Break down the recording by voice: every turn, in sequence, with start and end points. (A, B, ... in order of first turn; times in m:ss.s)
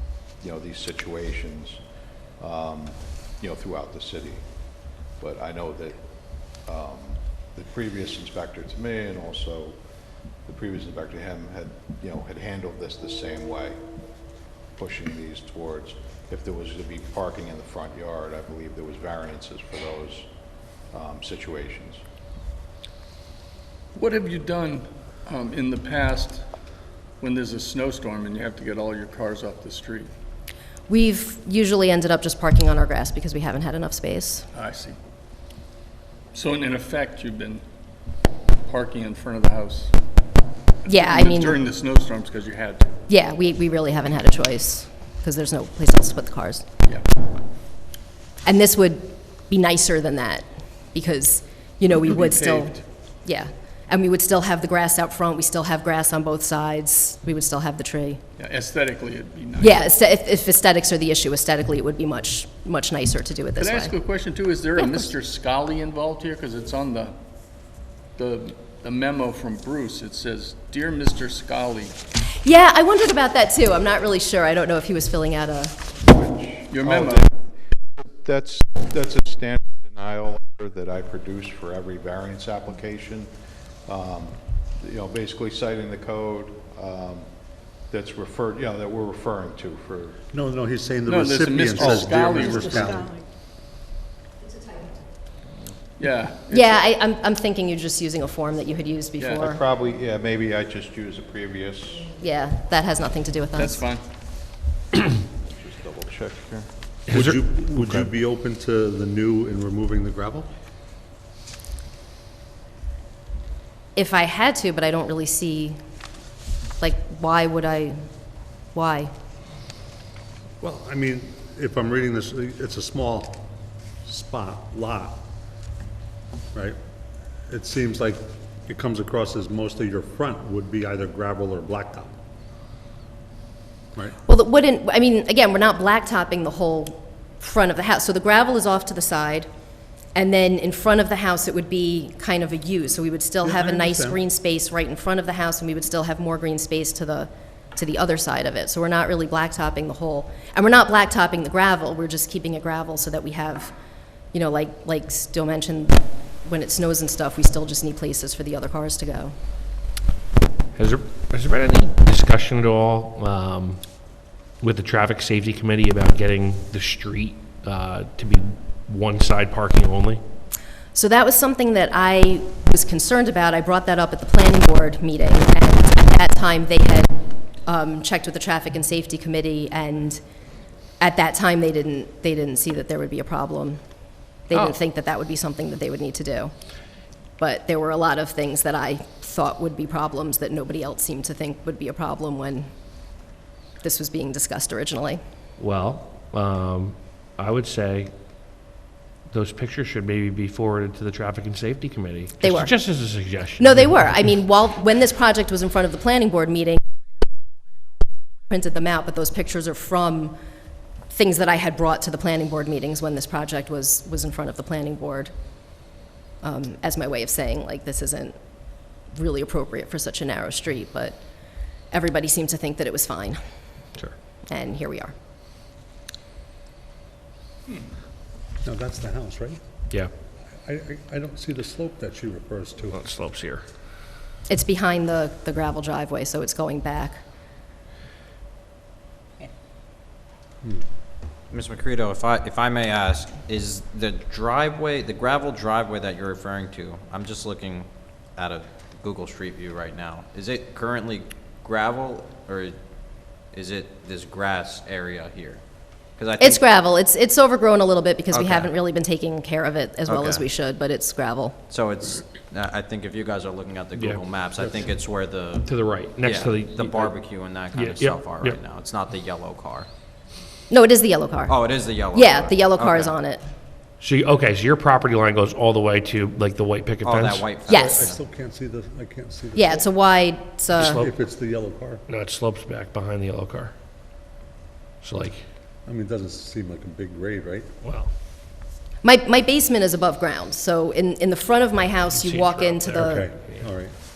0:00.4-0:01.8 A
0:02.4-0:04.4 A
0:05.2-0:06.0 A
0:06.6-0:09.8 A
0:10.5-0:13.8 A
0:14.8-0:20.3 A
0:20.9-0:22.0 A
0:24.0-0:26.4 B
0:27.2-0:30.1 B
0:30.9-0:34.5 C
0:34.5-0:35.0 B
0:36.3-0:37.6 B
0:38.6-0:40.0 B
0:40.8-0:41.6 C
0:40.8-0:42.9 B
0:43.1-0:46.7 C
0:48.4-0:58.2 C
0:51.9-0:52.8 B
0:58.4-1:00.0 B
0:59.6-1:04.0 C
1:03.6-1:07.2 B
1:04.8-1:05.1 C
1:08.2-1:12.0 B
1:12.4-1:15.8 C
1:16.0-1:17.3 A
1:16.7-1:17.3 B
1:18.0-1:23.3 A
1:23.9-1:27.3 A
1:27.9-1:30.2 A
1:30.3-1:33.2 D
1:31.1-1:33.2 B
1:36.0-1:36.8 B
1:36.5-1:39.6 C
1:39.2-1:39.4 B
1:39.3-1:42.1 A
1:42.2-1:43.9 C
1:43.6-1:44.0 B
1:45.4-1:46.7 A
1:47.1-1:48.1 E
1:47.1-1:50.5 D
1:54.0-1:55.8 C
1:56.8-1:58.0 C
1:58.7-1:59.1 C
2:00.6-2:05.3 D
2:07.5-2:12.2 D
2:14.2-2:19.5 C
2:20.1-2:33.7 C
2:23.4-2:24.2 D
2:34.3-2:39.3 C
2:40.8-2:50.2 E
2:50.9-3:00.2 C
3:01.0-3:03.8 C
3:04.4-3:06.5 C
3:07.4-3:12.7 C
3:13.8-3:15.2 C
3:15.6-3:18.1 E
3:19.3-3:24.3 E
3:22.4-3:22.8 C
3:23.6-3:26.8 C
3:28.5-3:30.4 C
3:31.1-3:35.3 C
3:36.4-3:38.4 C
3:39.0-3:41.2 C
3:41.9-3:43.4 C
3:44.5-3:45.1 C
3:47.7-3:47.9 B
3:48.6-3:49.6 D
3:50.6-3:52.9 D
3:52.9-3:53.6 E
3:54.5-3:57.2 C
4:01.5-4:12.8 F
4:13.5-4:15.6 F
4:16.2-4:16.6 F
4:16.4-4:21.6 C
4:18.3-4:18.7 F
4:20.1-4:20.4 F
4:21.7-4:25.7 F
4:23.9-4:24.2 E
4:25.6-4:27.1 E
4:26.2-4:29.9 F
4:27.7-4:28.6 E
4:30.7-4:33.4 C
4:31.5-4:33.2 F
4:34.0-4:37.5 E
4:37.0-4:38.2 F
4:37.7-4:38.1 C
4:37.7-4:39.8 D
4:39.6-4:41.0 C
4:40.7-4:42.0 D
4:40.8-4:41.1 E
4:42.1-4:43.7 E
4:45.0-4:45.4 E
4:45.9-4:47.7 D
4:47.8-4:48.1 E
4:49.0-4:53.3 C
4:52.1-4:53.7 E
4:53.0-4:53.9 D